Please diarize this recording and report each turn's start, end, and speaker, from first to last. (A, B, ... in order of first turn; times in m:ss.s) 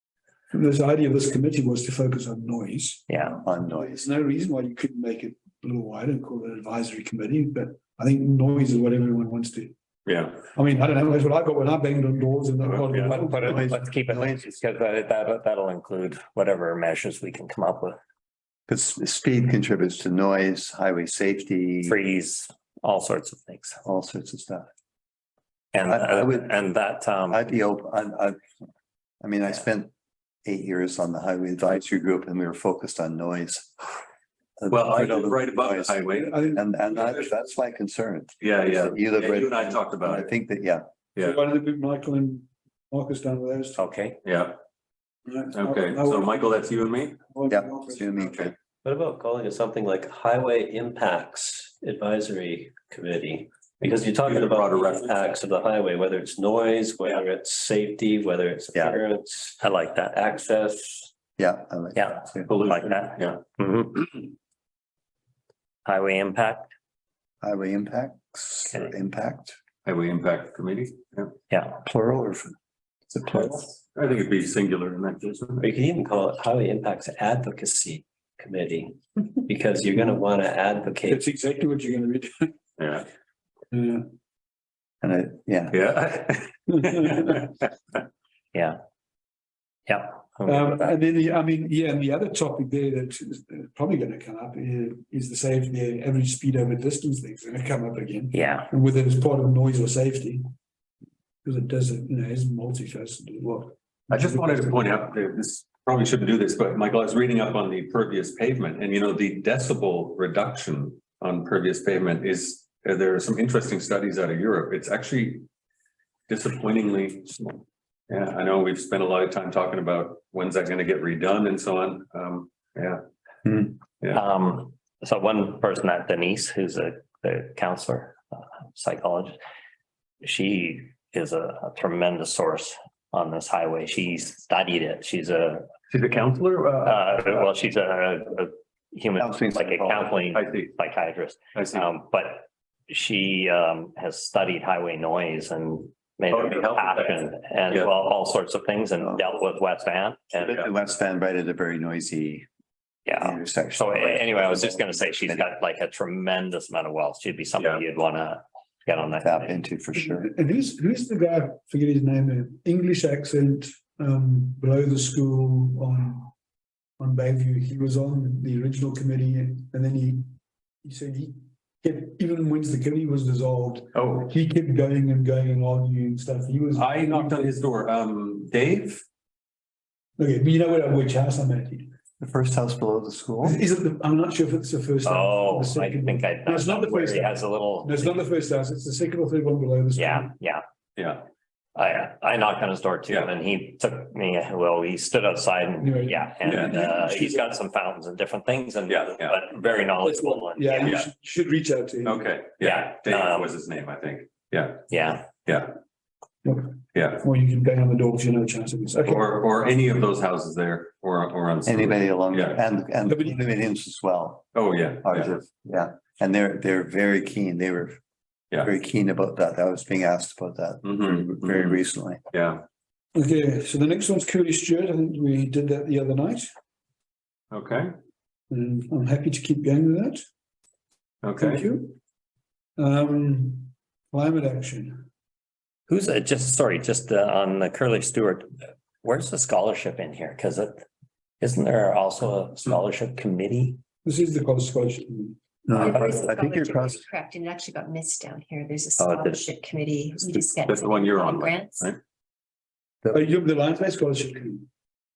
0:00.5-0:03.1 A
0:03.1-0:03.4 B
0:03.2-0:04.1 C
0:03.6-0:09.7 A
0:10.0-0:10.4 D
0:10.5-0:13.6 A
0:12.6-0:13.1 D
0:12.9-0:18.0 B
0:13.4-0:14.5 C
0:18.7-0:22.0 C
0:21.8-0:23.8 B
0:23.8-0:24.6 C
0:25.7-0:27.4 B
0:25.8-0:26.5 C
0:27.3-0:28.4 C
0:29.2-0:29.9 C
0:30.4-0:33.8 C
0:34.6-0:40.8 C
0:34.7-0:36.4 D
0:36.1-0:37.2 A
0:38.4-0:40.3 D
0:41.2-0:41.4 D
0:41.2-0:43.8 A
0:43.8-0:44.2 B
0:44.2-0:44.6 D
0:45.2-0:46.6 A
0:45.5-0:47.2 D
0:47.3-0:48.5 A
0:47.5-0:48.5 C
0:48.8-0:59.6 E
0:53.8-0:55.1 D
0:58.7-0:59.0 C
0:59.6-1:00.2 B
1:00.1-1:01.1 E
1:01.4-1:02.5 C
1:01.9-1:04.1 B
1:02.5-1:03.4 D
1:05.8-1:06.7 B
1:07.4-1:09.6 C
1:09.8-1:11.3 D
1:11.5-1:11.8 B
1:11.8-1:12.5 C
1:13.1-1:13.7 C
1:13.9-1:15.7 D
1:15.6-1:21.2 E
1:21.0-1:22.5 A
1:22.8-1:23.1 D
1:23.7-1:24.0 A
1:25.0-1:25.8 C
1:25.7-1:28.0 D
1:26.8-1:27.4 A
1:28.5-1:28.8 B
1:29.9-1:30.9 B
1:30.4-1:40.4 A
1:38.3-1:38.7 B
1:41.4-1:45.0 A
1:44.1-1:55.4 D
1:56.3-2:03.0 D
2:04.1-2:09.4 B
2:10.2-2:15.7 B
2:15.9-2:17.5 D
2:16.8-2:30.6 B
2:19.2-2:20.2 C
2:20.3-2:20.7 D
2:21.5-2:21.9 D
2:26.3-2:27.2 D
2:30.4-2:32.5 C
2:33.0-2:39.6 B
2:33.1-2:35.4 C
2:39.2-2:40.3 C
2:40.0-2:46.3 A
2:47.0-2:57.6 A
2:53.9-2:54.3 D
2:56.7-2:59.0 D
3:00.2-3:01.9 A
3:02.2-3:03.6 C
3:03.4-3:10.3 A
3:05.0-3:08.2 B
3:10.0-3:10.6 B
3:11.0-3:11.2 D
3:11.7-3:21.0 B
3:15.8-3:17.5 A
3:16.4-3:16.9 D
3:18.9-3:19.4 D
3:20.0-3:22.3 A
3:20.8-3:21.1 D
3:22.0-3:25.8 D
3:22.6-3:23.5 B
3:24.9-3:25.3 B
3:26.4-3:29.3 A
3:26.9-3:27.2 D
3:29.0-3:32.6 D
3:31.6-3:34.5 C
3:33.0-3:33.4 A
3:34.5-3:35.4 D
3:35.0-3:38.0 C
3:38.6-3:42.2 C
3:40.8-3:42.6 D
3:43.1-3:46.5 A
3:47.5-3:47.9 D
3:48.5-3:50.2 A
3:51.2-3:51.7 D
3:51.4-3:52.0 A
3:52.8-3:55.0 A
3:55.9-3:58.5 B
3:59.0-4:00.8 B
4:01.4-4:03.8 B
4:04.0-4:05.8 A
4:05.7-4:07.0 C
4:05.8-4:11.9 F
4:09.0-4:09.4 D
4:10.2-4:12.0 D
4:13.1-4:14.7 A